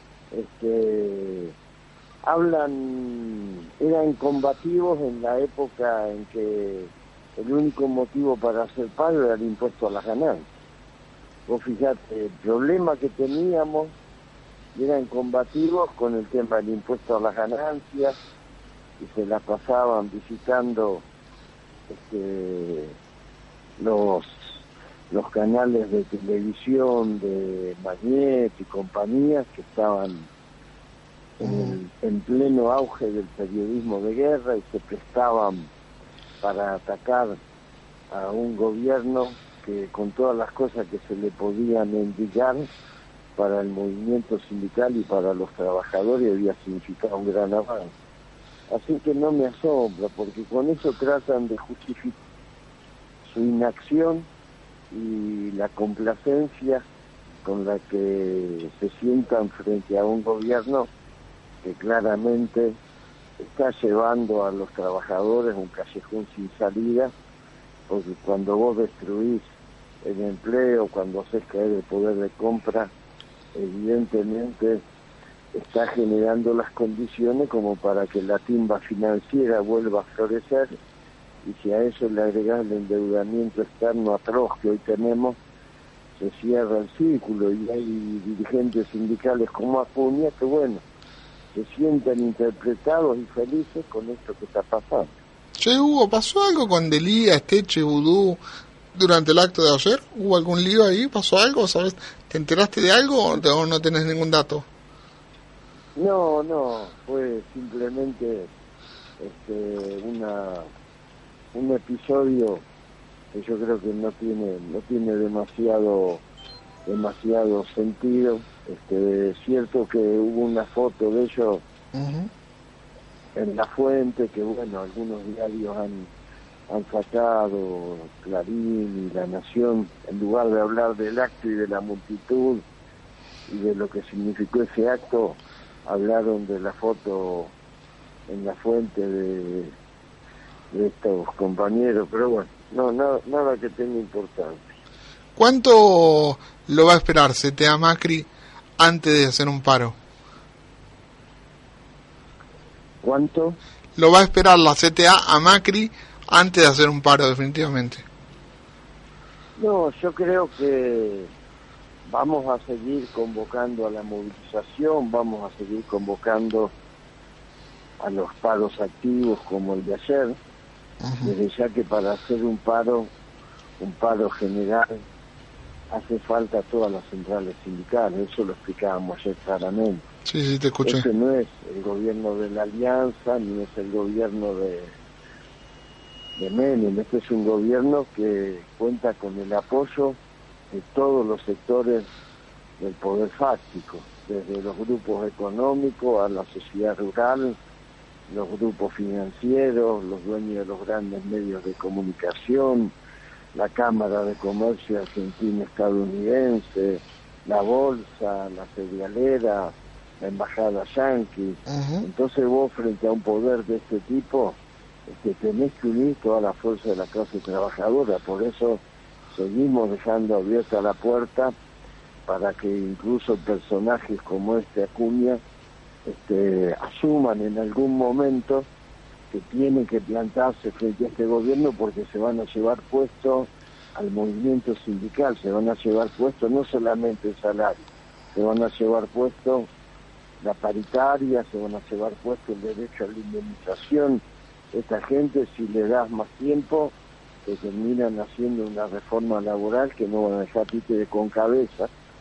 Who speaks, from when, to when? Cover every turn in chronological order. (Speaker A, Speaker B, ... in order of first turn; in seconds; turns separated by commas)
Speaker A: 0.3-1.5, Speaker A: 2.2-10.5, Speaker A: 11.5-13.9, Speaker A: 14.7-18.1, Speaker A: 19.0-21.1, Speaker A: 21.9-23.0, Speaker A: 23.8-30.3, Speaker A: 31.4-35.7, Speaker B: 31.4-31.8, Speaker A: 36.4-37.4, Speaker A: 38.1-42.7, Speaker A: 43.4-47.9, Speaker A: 48.7-52.2, Speaker A: 53.2-54.3, Speaker A: 54.9-56.8, Speaker A: 57.4-60.9, Speaker A: 61.6-62.8, Speaker A: 63.4-67.1, Speaker A: 67.9-69.4, Speaker A: 70.0-72.9, Speaker A: 73.5-74.8, Speaker A: 75.5-80.7, Speaker A: 81.4-85.4, Speaker A: 86.2-90.8, Speaker A: 91.5-95.2, Speaker B: 95.6-98.4, Speaker B: 98.9-104.7, Speaker A: 106.0-108.5, Speaker A: 109.2-110.7, Speaker A: 111.5-112.6, Speaker A: 113.3-116.2, Speaker A: 116.8-121.6, Speaker B: 121.9-122.3, Speaker A: 123.3-126.1, Speaker A: 126.7-132.6, Speaker A: 133.5-137.5, Speaker A: 138.3-139.7, Speaker A: 140.7-144.7, Speaker B: 145.3-148.3, Speaker B: 148.8-149.9, Speaker A: 153.0-153.6, Speaker B: 154.0-158.0, Speaker A: 159.6-161.3, Speaker A: 162.0-166.7, Speaker A: 168.0-170.4, Speaker B: 171.0-171.3, Speaker A: 171.2-173.1, Speaker A: 173.8-175.0, Speaker A: 175.9-180.0, Speaker B: 180.2-181.1, Speaker A: 180.8-184.9, Speaker A: 186.3-190.2, Speaker A: 190.7-192.1, Speaker A: 192.8-197.6, Speaker A: 198.3-202.9, Speaker A: 203.5-218.8, Speaker B: 211.7-212.0, Speaker A: 219.3-221.5, Speaker A: 222.2-225.4, Speaker A: 226.0-228.7, Speaker A: 229.3-237.8, Speaker A: 238.3-239.7, Speaker A: 240.4-251.9